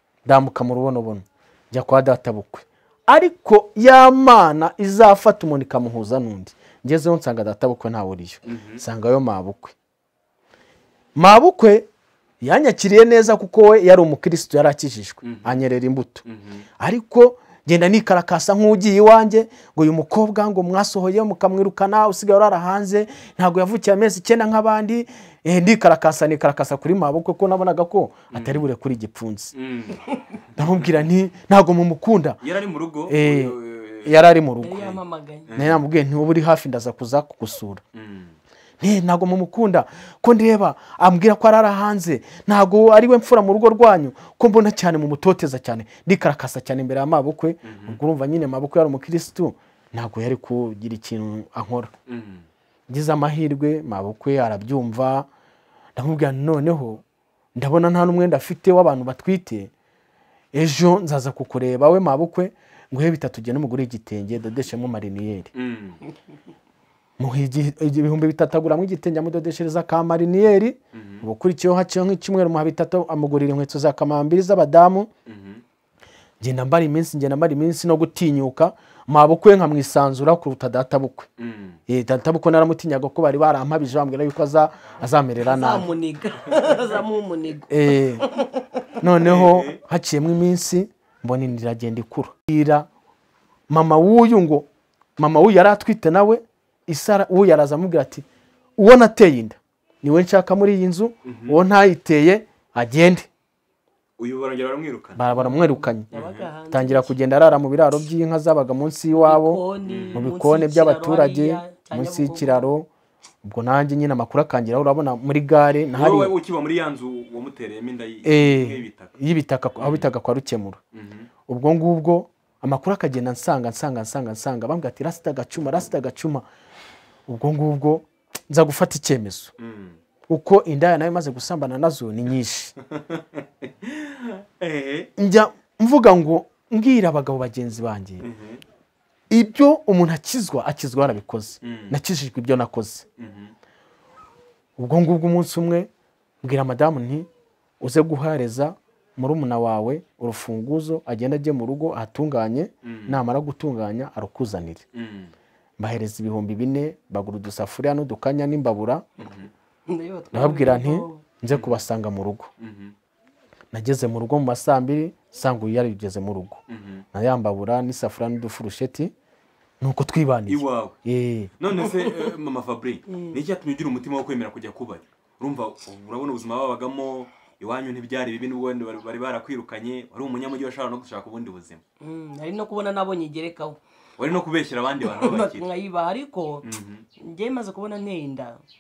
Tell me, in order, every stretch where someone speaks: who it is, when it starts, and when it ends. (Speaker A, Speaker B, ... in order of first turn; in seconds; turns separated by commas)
Speaker A: 0.3-9.8, Speaker B: 8.5-8.8, Speaker A: 11.2-11.9, Speaker A: 12.4-16.2, Speaker B: 15.2-15.6, Speaker B: 16.2-16.6, Speaker A: 16.8-29.5, Speaker B: 28.3-28.6, Speaker B: 29.6-30.0, Speaker B: 30.6-31.0, Speaker A: 30.6-32.4, Speaker B: 32.4-34.2, Speaker A: 33.1-34.9, Speaker C: 34.6-35.5, Speaker B: 34.8-35.8, Speaker A: 35.5-37.8, Speaker B: 37.9-38.3, Speaker A: 38.8-51.9, Speaker B: 47.6-48.0, Speaker B: 52.1-52.5, Speaker A: 52.9-55.3, Speaker A: 56.0-57.0, Speaker A: 57.6-59.7, Speaker A: 60.5-65.5, Speaker B: 65.5-66.0, Speaker A: 67.2-75.1, Speaker B: 70.9-71.2, Speaker B: 75.3-75.6, Speaker A: 76.4-81.3, Speaker B: 81.4-81.8, Speaker A: 81.9-85.9, Speaker C: 85.4-88.7, Speaker A: 87.7-88.2, Speaker A: 89.0-92.9, Speaker B: 89.2-89.8, Speaker A: 93.7-94.7, Speaker A: 95.2-98.2, Speaker A: 98.8-103.3, Speaker B: 101.3-101.6, Speaker B: 104.2-105.2, Speaker A: 105.2-106.1, Speaker C: 105.3-107.2, Speaker B: 106.1-106.5, Speaker A: 106.7-109.6, Speaker C: 109.2-112.7, Speaker B: 109.8-110.3, Speaker A: 110.2-112.9, Speaker A: 113.4-116.3, Speaker B: 115.9-119.1, Speaker A: 118.2-120.8, Speaker B: 119.8-120.1, Speaker B: 120.9-121.3, Speaker A: 121.5-126.5, Speaker A: 127.3-129.5, Speaker B: 129.6-130.0, Speaker A: 130.3-132.7, Speaker B: 132.9-135.1, Speaker A: 135.2-138.2, Speaker B: 138.2-138.6, Speaker A: 139.3-143.1, Speaker B: 141.6-141.9, Speaker B: 143.2-143.5, Speaker A: 144.8-145.9, Speaker A: 146.4-147.3, Speaker A: 147.8-154.9, Speaker B: 152.8-153.2, Speaker B: 154.9-155.3, Speaker A: 155.8-159.0, Speaker B: 159.2-159.5, Speaker C: 159.9-161.2, Speaker A: 160.3-162.5, Speaker B: 162.6-162.9, Speaker A: 163.7-166.6, Speaker B: 166.7-167.1, Speaker A: 167.1-169.1, Speaker A: 169.8-171.5, Speaker B: 170.5-170.9, Speaker B: 171.6-181.8, Speaker C: 173.1-173.4, Speaker C: 182.0-183.8, Speaker B: 184.2-185.7, Speaker C: 185.0-186.7, Speaker B: 186.6-187.1, Speaker C: 187.2-188.6